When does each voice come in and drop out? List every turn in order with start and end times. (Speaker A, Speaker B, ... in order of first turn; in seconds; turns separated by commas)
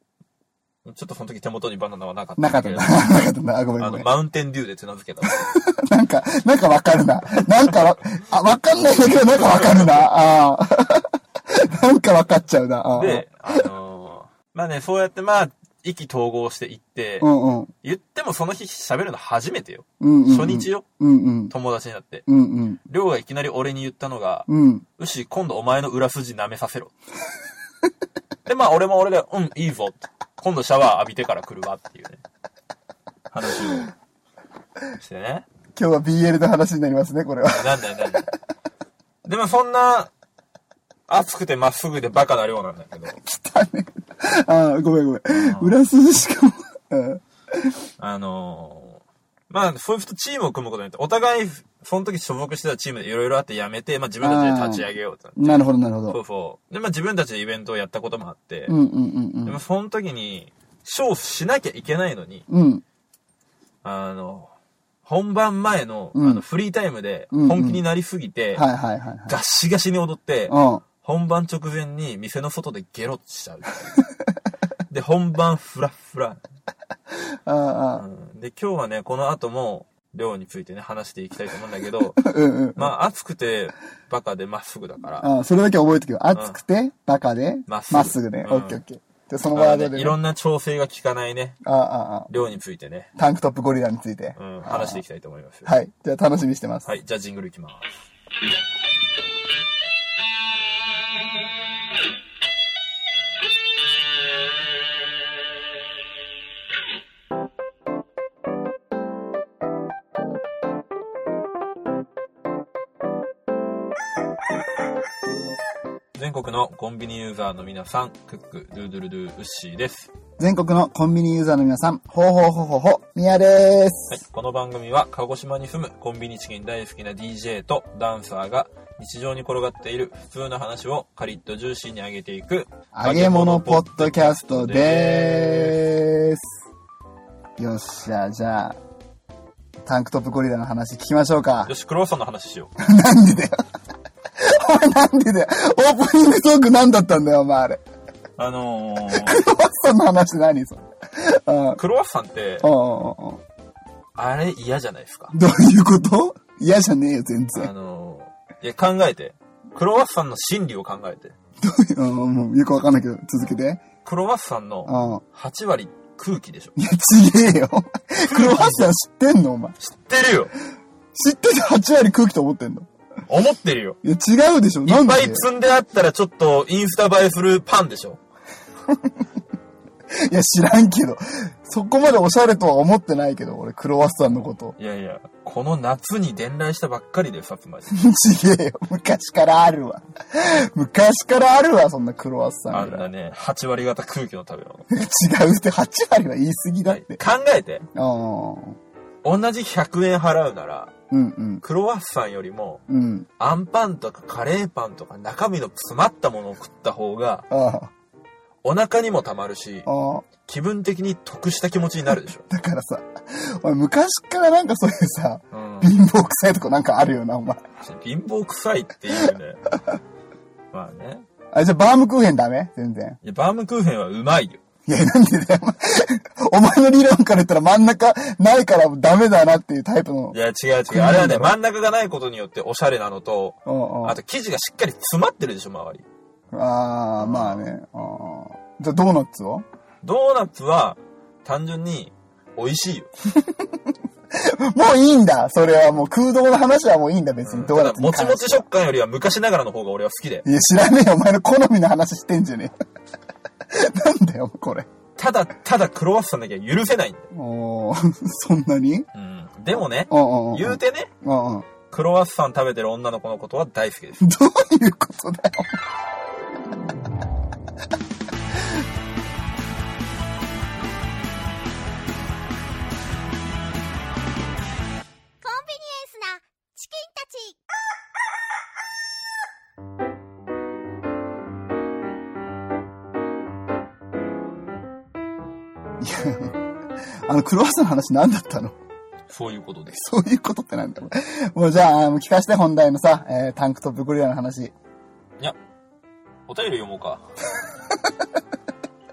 Speaker A: 0.8-3.3, Speaker B: 2.4-4.1, Speaker A: 3.8-5.5, Speaker B: 5.3-13.7, Speaker A: 9.3-10.1, Speaker A: 13.0-17.3, Speaker B: 17.2-17.7, Speaker A: 17.8-20.9, Speaker B: 20.0-21.5, Speaker A: 21.5-22.3, Speaker B: 22.3-22.8, Speaker A: 22.9-26.9, Speaker B: 24.5-24.9, Speaker A: 28.5-32.2, Speaker A: 33.3-33.9, Speaker A: 35.0-35.5, Speaker B: 35.8-38.3, Speaker A: 37.5-38.3, Speaker A: 39.2-40.1, Speaker A: 41.1-43.2, Speaker B: 43.2-47.8, Speaker A: 45.3-45.8, Speaker A: 48.0-58.8, Speaker B: 54.2-54.9, Speaker B: 55.4-56.2, Speaker B: 58.7-59.6, Speaker A: 59.5-62.5, Speaker B: 62.5-62.8, Speaker A: 63.8-64.5, Speaker A: 65.0-68.7, Speaker B: 66.1-66.4, Speaker B: 67.3-67.8, Speaker B: 68.5-69.3, Speaker A: 69.3-74.0, Speaker B: 70.5-70.8, Speaker A: 74.9-76.4, Speaker B: 77.2-78.0, Speaker A: 78.0-85.3, Speaker B: 82.2-82.9, Speaker B: 85.2-90.2, Speaker A: 86.3-86.6, Speaker A: 87.7-88.8, Speaker A: 89.5-91.6, Speaker B: 91.6-92.3, Speaker A: 92.3-93.1, Speaker B: 93.2-95.0, Speaker A: 94.4-95.7, Speaker B: 95.7-96.9, Speaker A: 96.8-98.0, Speaker A: 116.2-120.1, Speaker B: 120.4-124.2, Speaker A: 124.1-135.8, Speaker B: 132.9-136.5, Speaker B: 137.6-138.8, Speaker B: 139.8-141.7, Speaker A: 141.7-142.7, Speaker B: 142.8-143.6, Speaker B: 144.4-147.8, Speaker A: 148.4-149.5, Speaker B: 149.1-151.8, Speaker A: 151.8-152.7, Speaker B: 152.6-153.4, Speaker A: 154.2-155.3, Speaker B: 155.3-157.7, Speaker A: 157.5-161.3, Speaker B: 161.6-163.8, Speaker A: 164.1-166.8, Speaker B: 164.9-165.2, Speaker B: 166.8-169.8, Speaker A: 168.2-168.9, Speaker A: 169.8-170.5, Speaker B: 171.1-172.9, Speaker A: 173.3-174.0, Speaker B: 174.0-175.4, Speaker A: 174.9-178.2, Speaker B: 180.1-184.8, Speaker A: 184.8-187.9, Speaker B: 187.9-193.1, Speaker A: 192.7-194.9, Speaker B: 194.9-197.2, Speaker A: 196.8-197.8, Speaker B: 197.9-198.8, Speaker A: 199.2-200.9, Speaker B: 201.1-201.6, Speaker A: 201.6-202.8, Speaker B: 202.9-203.3, Speaker A: 203.4-207.5, Speaker B: 207.5-207.9, Speaker A: 208.6-209.9, Speaker B: 209.9-210.3, Speaker A: 210.4-212.4, Speaker B: 212.5-217.6, Speaker A: 215.5-215.9, Speaker A: 217.8-219.6, Speaker A: 220.7-221.2, Speaker B: 221.5-223.2, Speaker A: 223.2-224.6, Speaker B: 224.9-230.4, Speaker A: 230.3-236.1, Speaker B: 230.9-231.6, Speaker B: 233.7-234.2, Speaker B: 236.5-239.7, Speaker A: 237.2-237.7, Speaker A: 240.0-243.1, Speaker B: 243.3-243.8, Speaker B: 244.3-248.7, Speaker A: 247.4-250.5, Speaker B: 250.4-252.7, Speaker B: 253.7-254.9, Speaker A: 255.2-257.3, Speaker B: 257.3-259.1, Speaker A: 259.1-261.1, Speaker B: 259.8-261.7, Speaker A: 261.9-264.3, Speaker B: 264.2-265.8, Speaker C: 275.4-277.6, Speaker B: 286.0-286.6, Speaker B: 287.3-288.8, Speaker A: 289.3-290.0, Speaker B: 289.9-294.7, Speaker A: 296.5-297.2